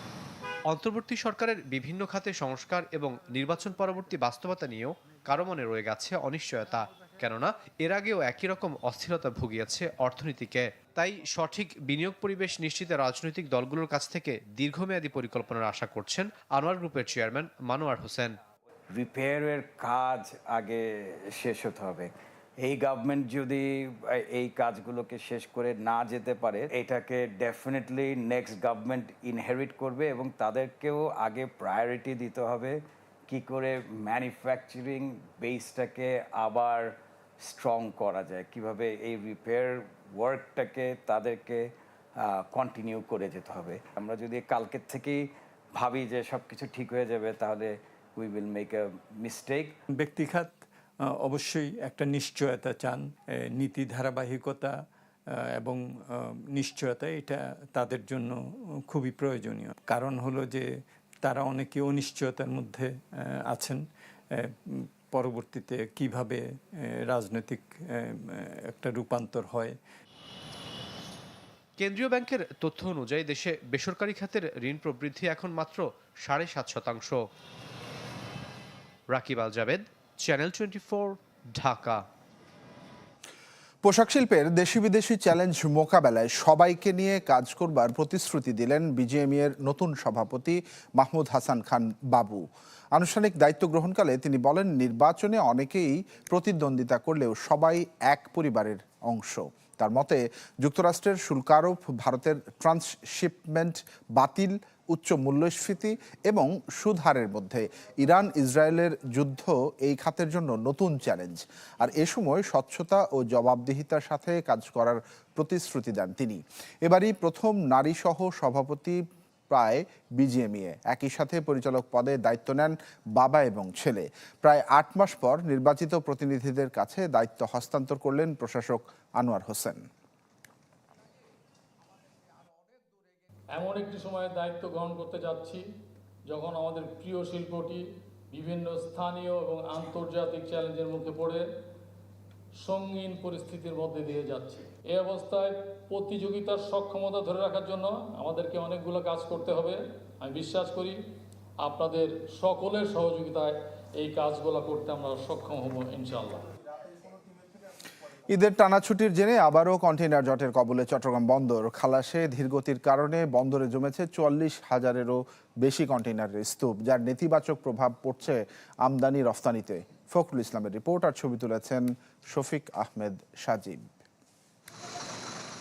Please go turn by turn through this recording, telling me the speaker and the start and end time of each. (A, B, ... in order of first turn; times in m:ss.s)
0:00.7-0:18.4 A
0:18.9-0:22.1 B
0:22.6-0:49.8 B
0:49.9-0:54.8 C
0:55.3-1:00.7 C
1:01.2-1:09.8 C
1:11.8-1:17.2 A
1:19.1-1:22.0 A
1:23.8-2:09.9 D
2:13.5-2:15.6 E
2:16.3-2:21.4 E
2:22.6-2:31.0 E
2:31.6-2:36.4 E
2:38.3-2:53.9 D